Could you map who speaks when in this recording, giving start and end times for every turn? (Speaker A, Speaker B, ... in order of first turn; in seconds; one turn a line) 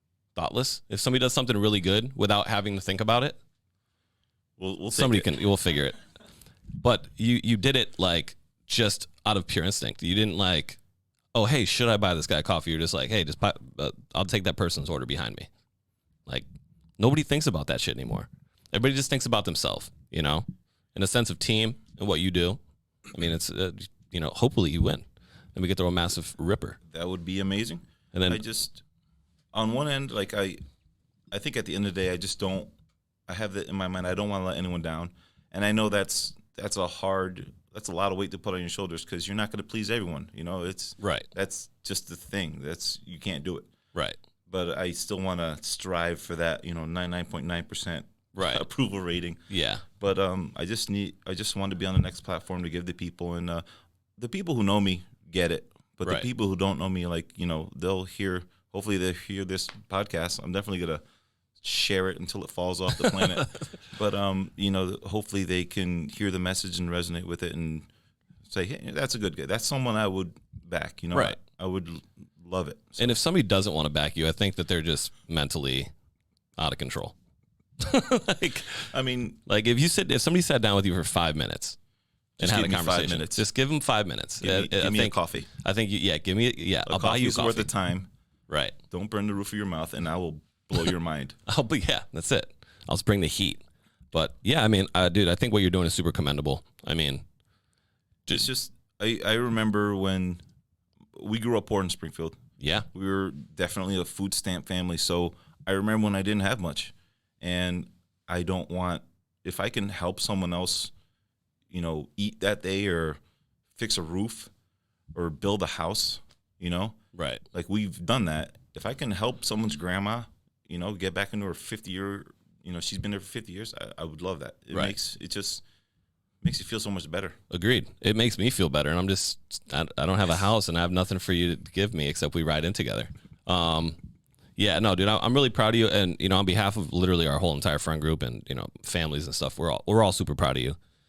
Speaker A: 0.3-3.4
Speaker B: 4.6-5.3
Speaker A: 4.9-6.0
Speaker A: 6.8-10.8
Speaker A: 11.3-15.5
Speaker A: 17.0-22.6
Speaker A: 23.1-26.8
Speaker B: 26.9-28.8
Speaker A: 28.1-28.4
Speaker B: 29.5-30.6
Speaker B: 31.3-32.7
Speaker B: 33.3-43.7
Speaker A: 41.0-41.3
Speaker B: 44.5-49.4
Speaker A: 48.3-48.6
Speaker A: 49.5-49.8
Speaker B: 50.0-53.6
Speaker B: 54.2-61.0
Speaker B: 61.6-67.9
Speaker A: 63.0-63.4
Speaker B: 68.5-73.1
Speaker A: 73.0-75.9
Speaker A: 76.6-77.1
Speaker A: 77.8-78.9
Speaker B: 78.9-79.4
Speaker A: 79.5-81.8
Speaker B: 82.4-83.4
Speaker A: 82.4-87.7
Speaker B: 84.4-85.5
Speaker B: 86.8-88.1
Speaker A: 88.5-88.7
Speaker B: 88.9-91.3
Speaker A: 91.5-97.2
Speaker B: 98.3-100.4
Speaker B: 101.2-102.4
Speaker A: 102.6-102.9
Speaker B: 102.9-110.9
Speaker B: 111.7-113.2
Speaker B: 113.8-114.5
Speaker B: 115.1-117.0
Speaker A: 117.1-117.4
Speaker B: 117.5-125.6
Speaker B: 126.4-127.3
Speaker A: 127.5-134.0
Speaker A: 134.6-140.8